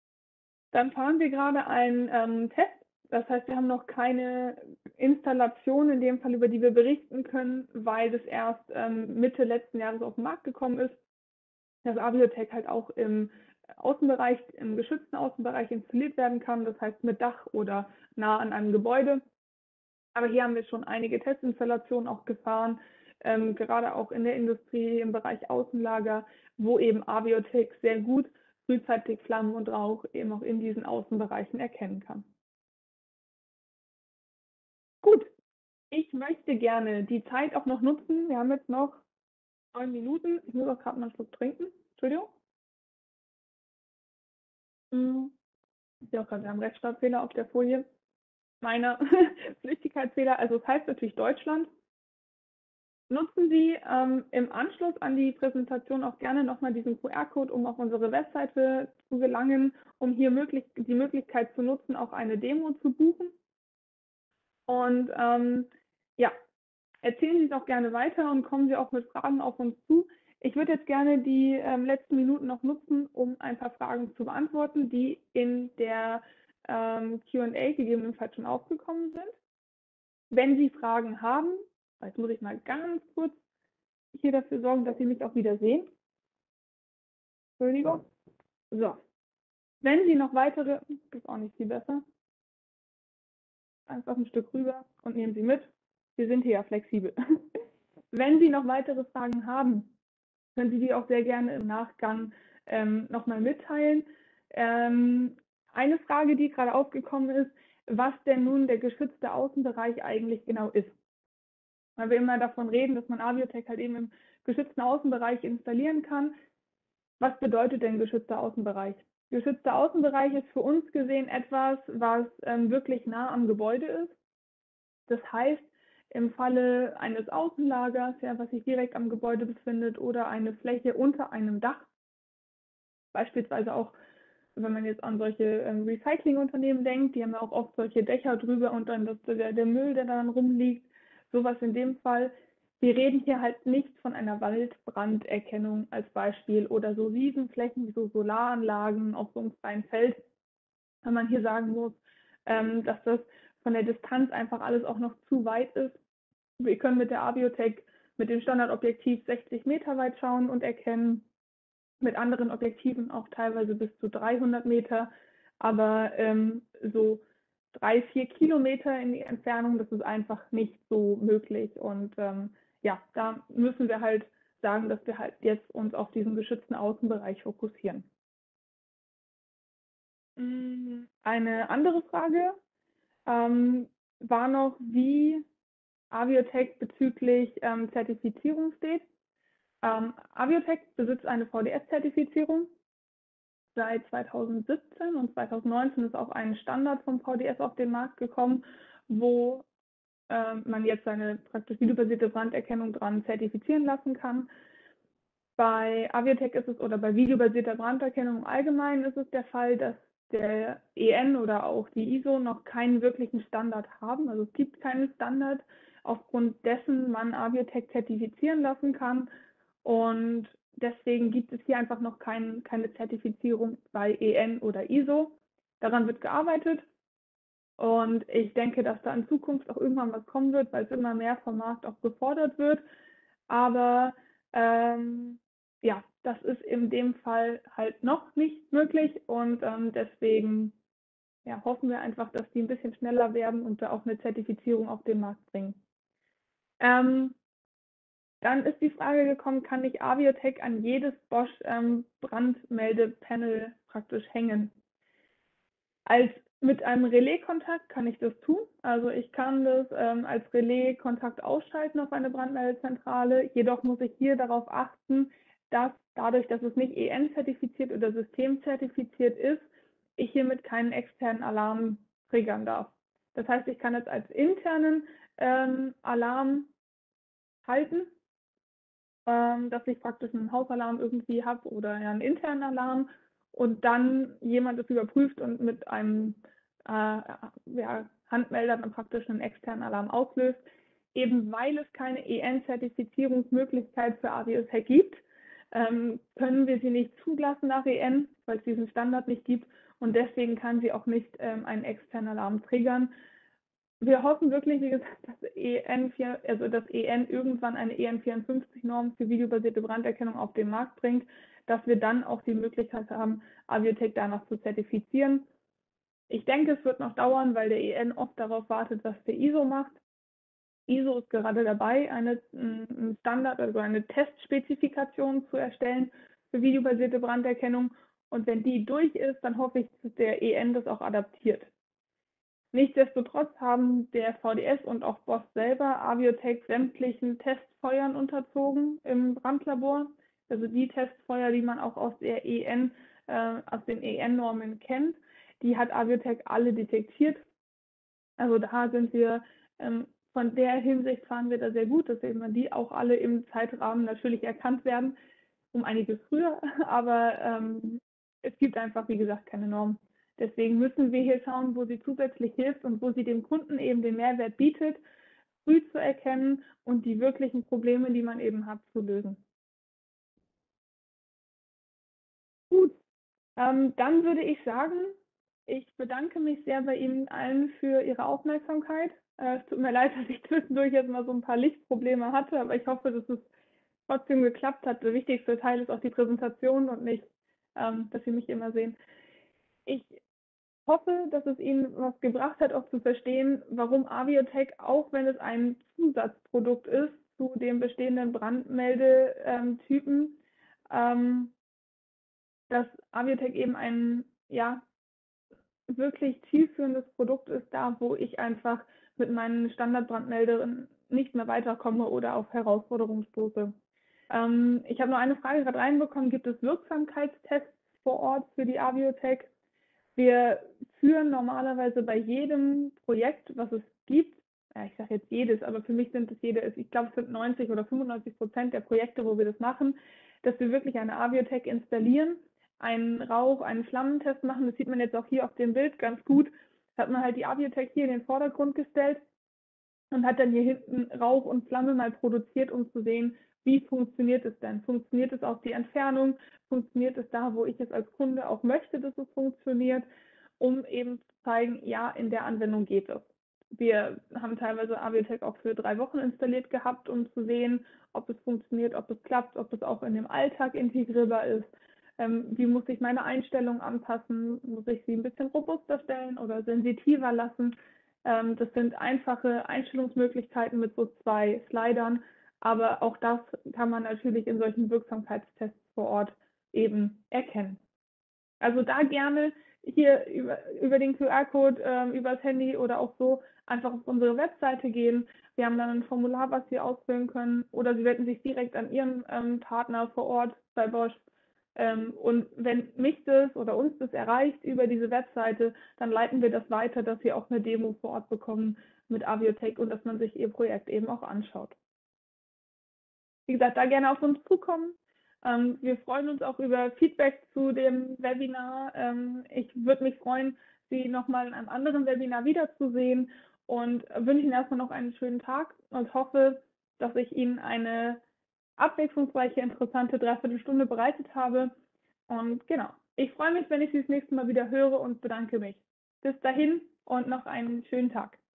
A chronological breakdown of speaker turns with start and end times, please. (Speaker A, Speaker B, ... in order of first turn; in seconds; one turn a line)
Speaker A: 0.7-11.0
Speaker A: 11.8-19.2
Speaker A: 20.1-32.2
Speaker A: 35.0-35.3
Speaker A: 35.9-39.0
Speaker A: 39.7-42.3
Speaker A: 44.9-45.3
Speaker A: 46.1-47.8
Speaker A: 48.6-51.7
Speaker A: 53.1-63.3
Speaker A: 64.7-66.3
Speaker A: 67.0-79.3
Speaker A: 80.3-83.4
Speaker A: 84.1-85.9
Speaker A: 87.6-88.0
Speaker A: 88.7-89.0
Speaker A: 89.8-92.0
Speaker A: 93.9-97.1
Speaker A: 98.1-99.9
Speaker A: 100.5-110.9
Speaker A: 112.0-116.3
Speaker A: 117.2-124.1
Speaker A: 125.1-131.9
Speaker A: 133.1-133.9
Speaker A: 134.6-150.2
Speaker A: 151.0-156.0
Speaker A: 156.6-161.2
Speaker A: 162.0-178.1
Speaker A: 180.4-182.5
Speaker A: 183.3-185.4
Speaker A: 186.1-189.0
Speaker A: 189.8-192.7
Speaker A: 193.7-199.7
Speaker A: 200.3-204.5
Speaker A: 205.6-219.3
Speaker A: 219.8-226.8
Speaker A: 227.8-232.8
Speaker A: 233.5-240.7
Speaker A: 241.4-245.8
Speaker A: 246.8-247.3
Speaker A: 248.4-254.7
Speaker A: 256.1-269.6
Speaker A: 270.2-276.7
Speaker A: 277.6-278.1
Speaker A: 279.2-290.6
Speaker A: 291.1-303.1
Speaker A: 304.0-315.4
Speaker A: 316.3-320.0
Speaker A: 320.9-331.7
Speaker A: 332.7-347.4
Speaker A: 348.4-355.1
Speaker A: 355.7-365.0
Speaker A: 365.6-369.4
Speaker A: 373.6-375.1
Speaker A: 375.7-383.4
Speaker A: 384.1-387.2
Speaker A: 387.8-389.0
Speaker A: 389.9-390.2
Speaker A: 390.9-400.4
Speaker A: 400.9-401.5
Speaker A: 402.7-404.8
Speaker A: 405.9-413.7
Speaker A: 414.3-419.5
Speaker A: 420.1-439.2
Speaker A: 440.1-450.0
Speaker A: 450.6-467.7
Speaker A: 468.2-477.8
Speaker A: 478.6-491.2
Speaker A: 491.8-501.8
Speaker A: 503.5-518.2
Speaker A: 518.8-521.7
Speaker A: 522.3-528.4